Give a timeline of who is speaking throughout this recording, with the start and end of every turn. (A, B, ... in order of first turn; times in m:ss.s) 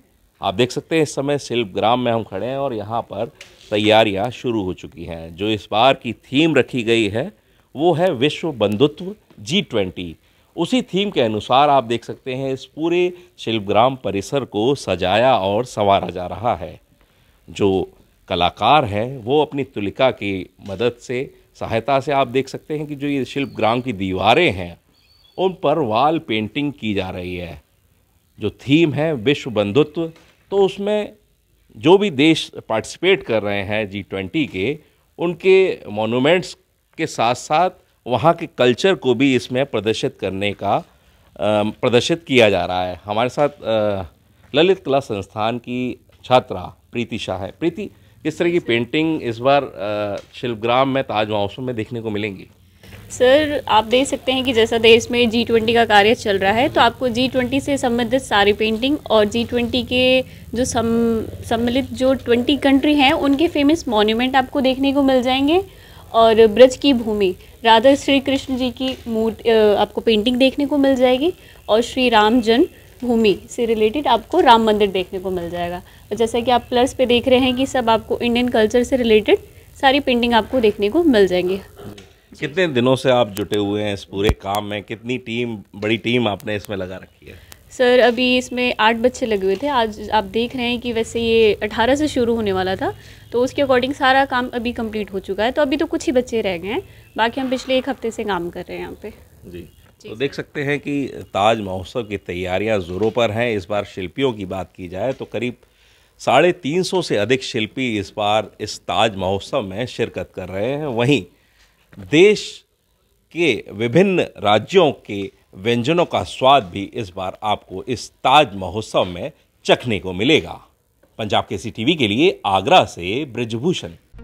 0:00.4-0:16.8 A
0:17.5-0:24.8 A
0:25.4-0:27.6 A
0:28.4-0:31.2 A
0:31.8-0:40.8 A
0:41.4-0:52.5 A
0:48.4-0:48.8 B
0:53.1-1:21.6 B
1:21.9-1:27.4 A
1:27.7-1:39.2 B
1:39.4-1:45.6 A
1:40.0-1:40.4 B
1:46.2-1:51.3 A
1:52.1-1:52.6 A
1:53.3-2:00.6 A
2:01.2-2:04.0 A